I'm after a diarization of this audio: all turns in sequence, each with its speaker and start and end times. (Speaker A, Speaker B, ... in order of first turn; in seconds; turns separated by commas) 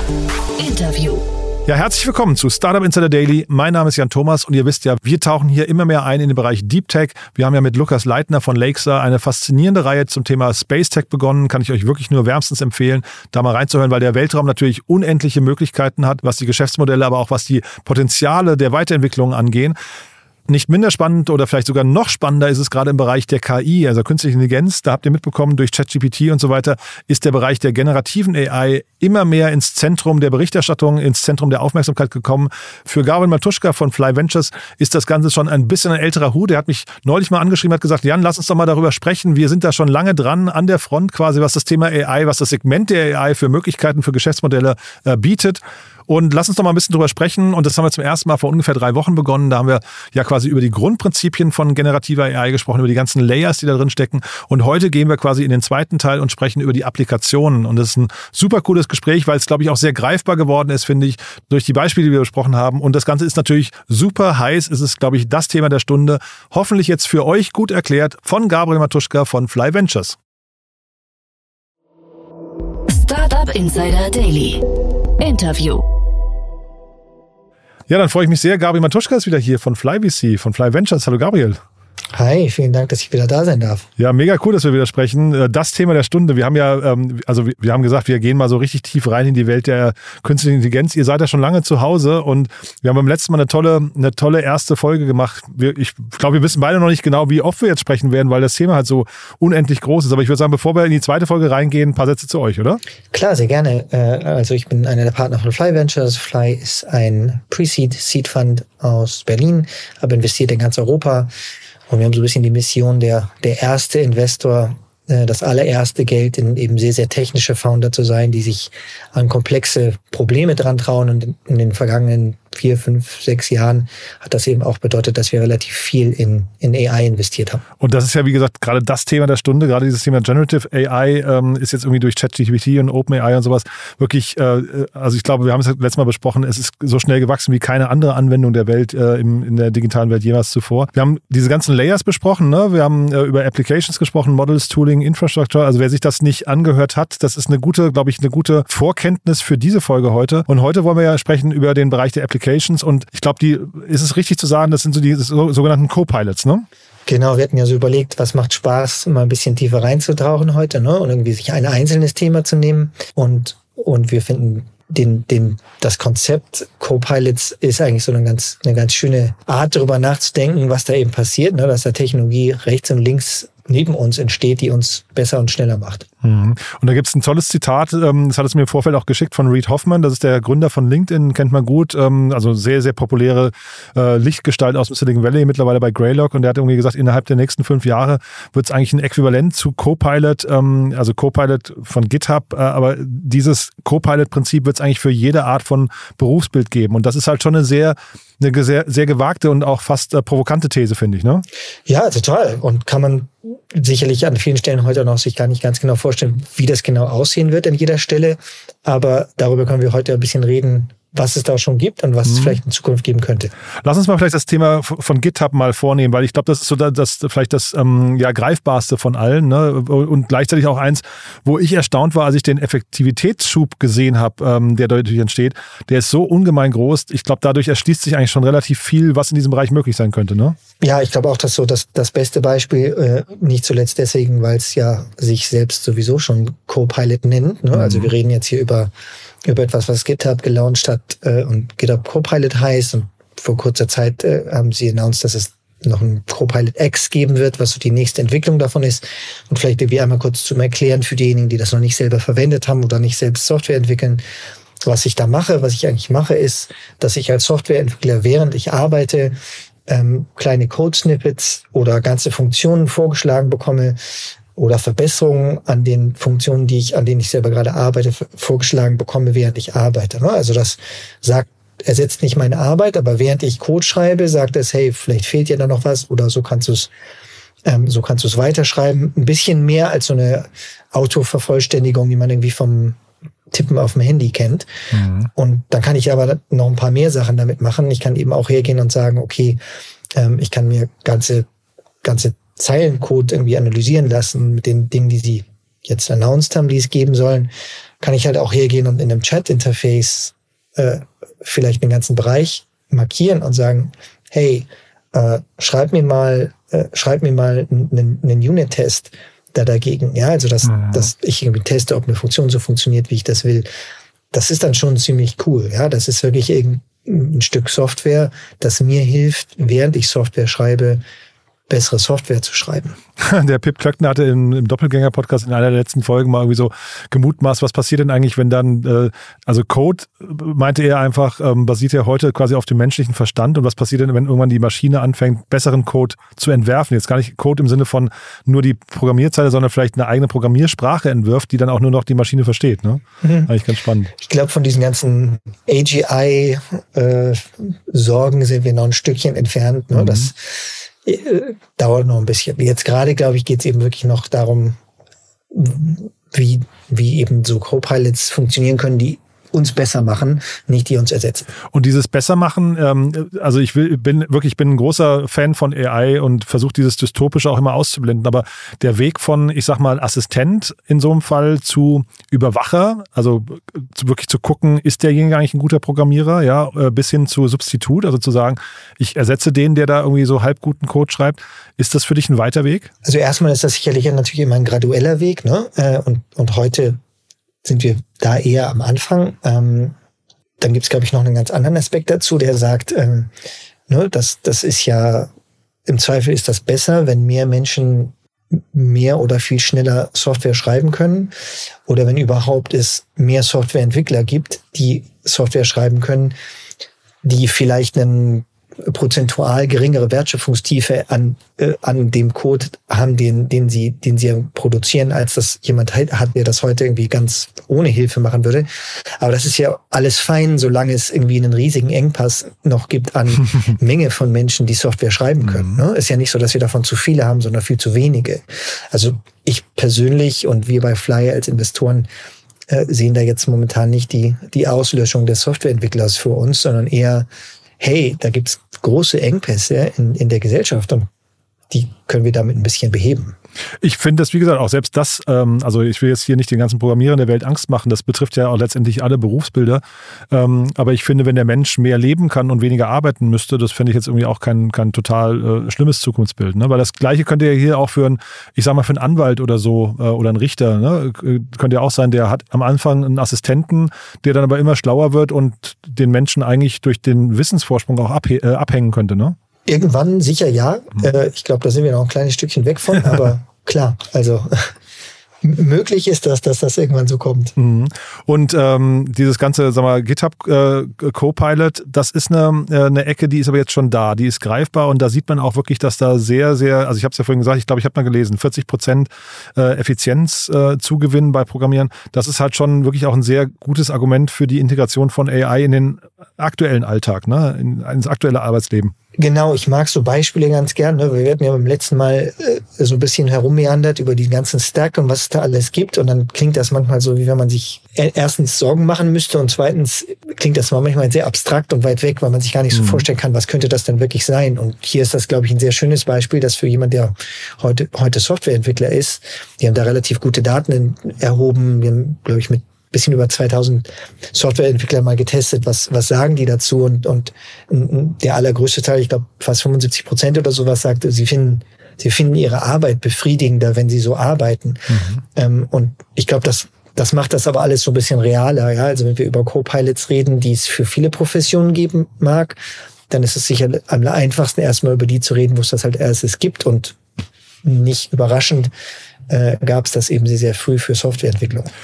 Speaker A: 0.6-1.2, Speaker B: 1.7-19.8, Speaker B: 20.5-70.2, Speaker A: 72.9-74.6, Speaker A: 75.2-75.8, Speaker B: 77.9-81.6, Speaker C: 82.1-83.9, Speaker B: 84.0-102.8, Speaker C: 103.1-111.3, Speaker C: 111.9-127.6, Speaker B: 127.8-156.7, Speaker C: 157.1-176.1, Speaker B: 176.2-201.4, Speaker C: 201.9-213.5, Speaker B: 212.3-212.6, Speaker B: 213.8-230.6, Speaker C: 230.8-238.9, Speaker B: 237.7-238.1, Speaker C: 239.4-254.2, Speaker C: 254.8-259.4, Speaker C: 259.9-264.0, Speaker C: 264.6-276.9, Speaker C: 277.6-283.0, Speaker C: 283.5-284.7, Speaker B: 284.9-285.3, Speaker C: 285.4-289.6, Speaker C: 290.2-291.4, Speaker C: 292.0-313.7, Speaker B: 310.8-311.1, Speaker C: 314.3-321.0, Speaker C: 321.7-323.0, Speaker B: 323.2-344.1, Speaker C: 343.2-343.5, Speaker C: 344.2-350.4, Speaker B: 349.9-350.3, Speaker C: 351.1-354.8, Speaker C: 355.5-361.5, Speaker B: 361.7-382.9, Speaker C: 383.0-387.0, Speaker C: 387.6-389.9, Speaker C: 390.6-393.3, Speaker C: 393.9-395.3, Speaker C: 395.9-401.3, Speaker C: 401.9-406.4, Speaker C: 407.2-418.7, Speaker C: 419.2-432.1, Speaker B: 425.4-425.8, Speaker C: 432.7-437.3, Speaker C: 437.8-441.1, Speaker C: 441.7-443.4, Speaker B: 443.8-469.4, Speaker C: 469.7-474.7, Speaker C: 475.4-477.5, Speaker B: 477.6-498.9, Speaker C: 499.2-542.6, Speaker B: 512.7-513.0, Speaker B: 534.9-535.2, Speaker C: 543.1-547.0, Speaker C: 547.6-548.7, Speaker C: 549.3-551.7